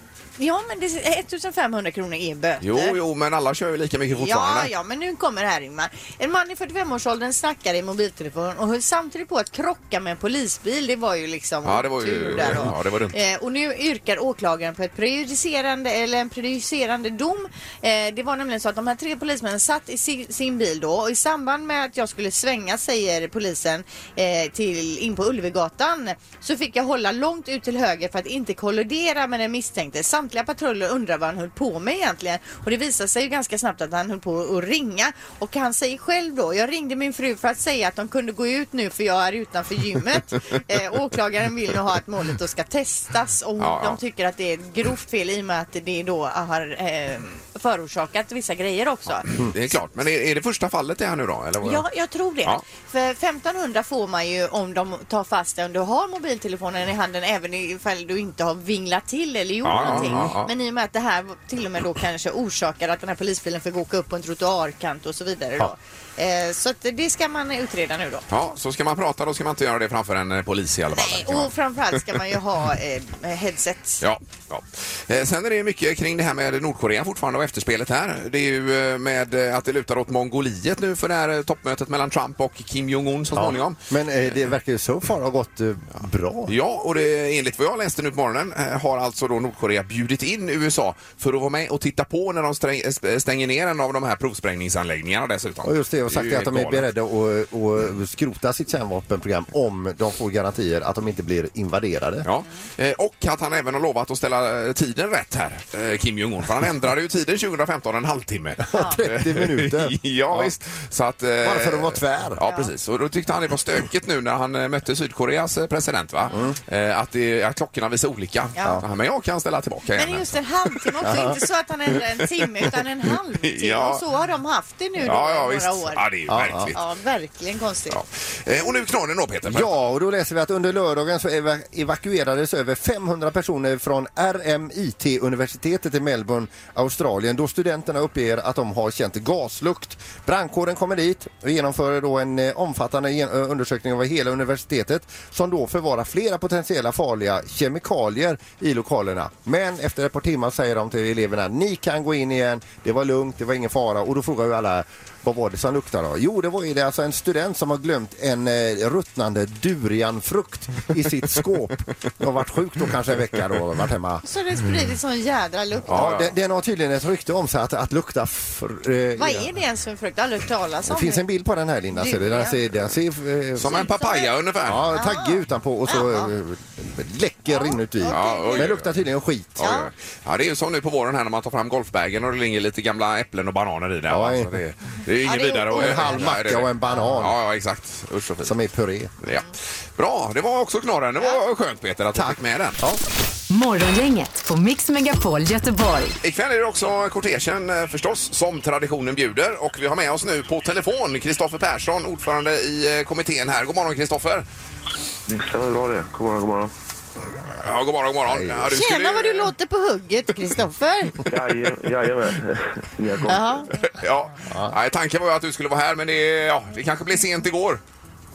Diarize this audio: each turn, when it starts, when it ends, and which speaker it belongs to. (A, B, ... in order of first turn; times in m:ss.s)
0:00.4-0:03.0 A
0:02.6-0:04.7 B
0:04.1-0:49.4 A
0:11.6-0:13.2 B
0:43.6-0:44.0 B
0:49.4-0:51.8 B
0:51.6-1:08.2 A
0:59.6-1:00.5 B
0:59.7-1:00.3 C
1:08.3-1:11.5 B
1:10.9-1:14.0 A
1:14.0-1:23.8 B
1:23.3-1:26.5 C
1:26.5-1:36.8 B
1:35.6-1:42.2 C
1:42.2-2:01.3 B
1:48.7-1:50.5 C
1:48.7-1:49.0 A
1:51.4-1:52.4 C
1:58.6-1:58.8 A
1:59.9-2:06.0 A
2:01.0-2:01.4 C
2:03.4-2:04.0 B
2:05.0-2:06.8 B
2:06.3-2:06.7 C
2:06.7-2:08.0 A
2:07.9-2:09.7 B
2:09.5-2:44.2 C
2:44.2-2:46.1 A
2:45.9-2:46.3 B
2:45.9-2:49.5 C
2:49.2-2:51.2 A
2:50.8-2:53.9 C
2:51.9-2:52.6 A
2:53.6-2:54.9 B
2:53.7-2:54.3 A
2:54.6-2:59.7 C
2:54.9-2:56.3 A
2:57.5-2:58.7 A
2:58.1-2:58.9 B
2:59.6-3:08.5 B
2:59.6-2:59.9 A
3:04.1-3:04.6 C
3:05.2-3:06.3 A
3:05.7-3:07.4 C
3:08.4-3:09.1 C
3:09.2-3:12.8 B
3:12.1-3:13.0 C
3:13.5-3:16.2 D
3:16.2-3:24.4 B
3:25.3-3:26.7 E
3:27.6-3:29.5 B
3:28.3-3:28.7 C
3:28.7-3:31.2 A
3:31.2-3:33.6 E
3:33.3-3:33.7 A
3:33.8-3:37.8 B
3:34.5-3:34.7 C